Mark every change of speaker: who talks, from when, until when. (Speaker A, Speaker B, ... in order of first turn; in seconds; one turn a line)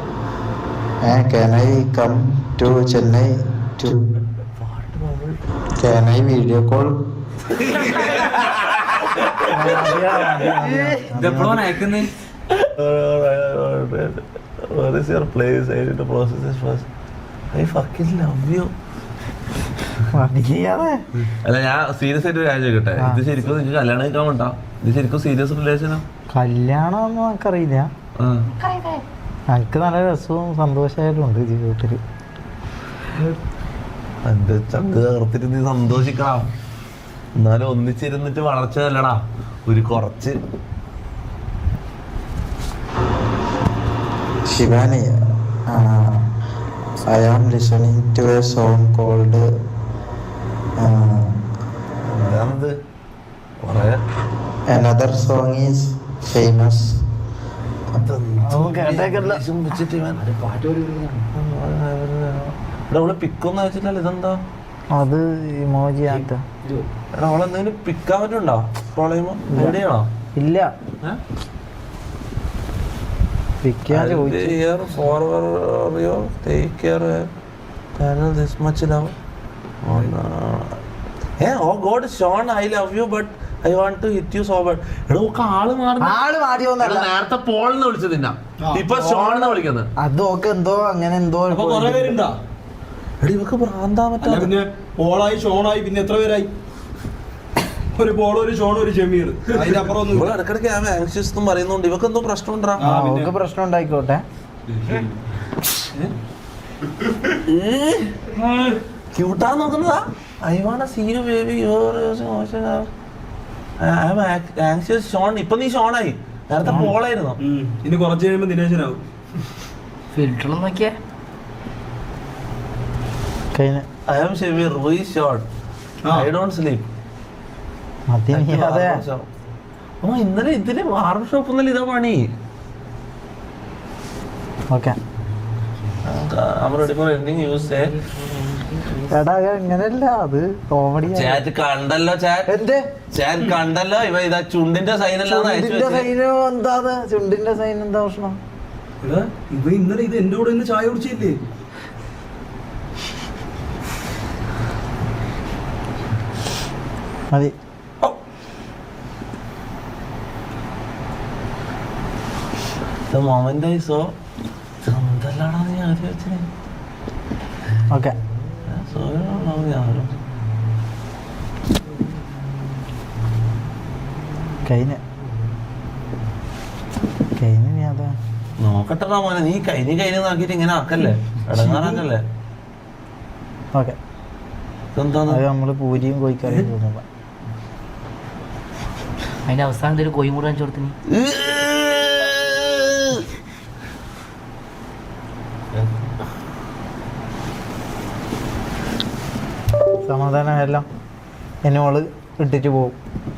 Speaker A: 1.0-4.1
Speaker B: 4.6-5.4
Speaker A: 5.8-7.0
Speaker B: 7.5-11.0
Speaker C: 9.4-11.7
Speaker D: 11.1-12.1
Speaker B: 12.5-16.9
Speaker B: 17.5-18.7
Speaker C: 20.1-21.0
Speaker B: 21.3-26.0
Speaker C: 26.3-27.9
Speaker B: 28.2-28.5
Speaker E: 28.5-29.0
Speaker C: 29.5-32.0
Speaker B: 34.2-36.5
Speaker B: 37.4-40.4
Speaker A: 44.5-46.3
Speaker A: 47.0-49.5
Speaker A: 50.8-51.5
Speaker B: 52.0-52.8
Speaker B: 53.6-54.0
Speaker A: 54.7-57.0
Speaker B: 57.9-60.2
Speaker C: 58.5-59.4
Speaker D: 60.3-61.2
Speaker B: 61.3-64.4
Speaker C: 64.9-66.4
Speaker D: 66.1-66.8
Speaker B: 67.1-70.1
Speaker C: 69.5-69.8
Speaker C: 70.4-70.7
Speaker C: 73.6-74.6
Speaker B: 73.9-77.3
Speaker B: 78.0-79.1
Speaker B: 79.8-80.8
Speaker B: 81.4-86.2
Speaker C: 86.0-87.1
Speaker B: 86.8-89.9
Speaker C: 88.9-92.2
Speaker F: 91.5-92.3
Speaker B: 93.2-94.5
Speaker F: 94.2-96.5
Speaker F: 98.0-100.3
Speaker B: 100.0-102.9
Speaker F: 102.8-103.3
Speaker C: 102.8-104.2
Speaker F: 104.8-105.0
Speaker B: 107.3-112.9
Speaker B: 113.8-117.4
Speaker C: 116.6-116.9
Speaker F: 117.4-119.0
Speaker E: 120.1-121.0
Speaker C: 123.5-123.9
Speaker B: 124.1-125.5
Speaker F: 126.0-126.3
Speaker B: 126.1-126.9
Speaker C: 128.1-129.0
Speaker B: 128.3-129.3
Speaker B: 130.0-132.3
Speaker C: 134.7-135.0
Speaker B: 136.1-137.9
Speaker C: 139.1-141.4
Speaker B: 141.1-142.5
Speaker C: 142.5-142.8
Speaker B: 143.1-146.1
Speaker C: 145.2-148.4
Speaker F: 149.0-151.4
Speaker B: 163.1-164.1
Speaker B: 164.8-166.5
Speaker C: 167.9-168.2
Speaker B: 168.7-170.2
Speaker C: 174.7-175.0
Speaker C: 177.4-178.2
Speaker B: 178.6-182.2
Speaker B: 184.9-185.4
Speaker C: 185.3-187.0
Speaker E: 189.5-190.9
Speaker B: 191.1-193.2
Speaker C: 200.0-200.9
Speaker C: 201.6-203.0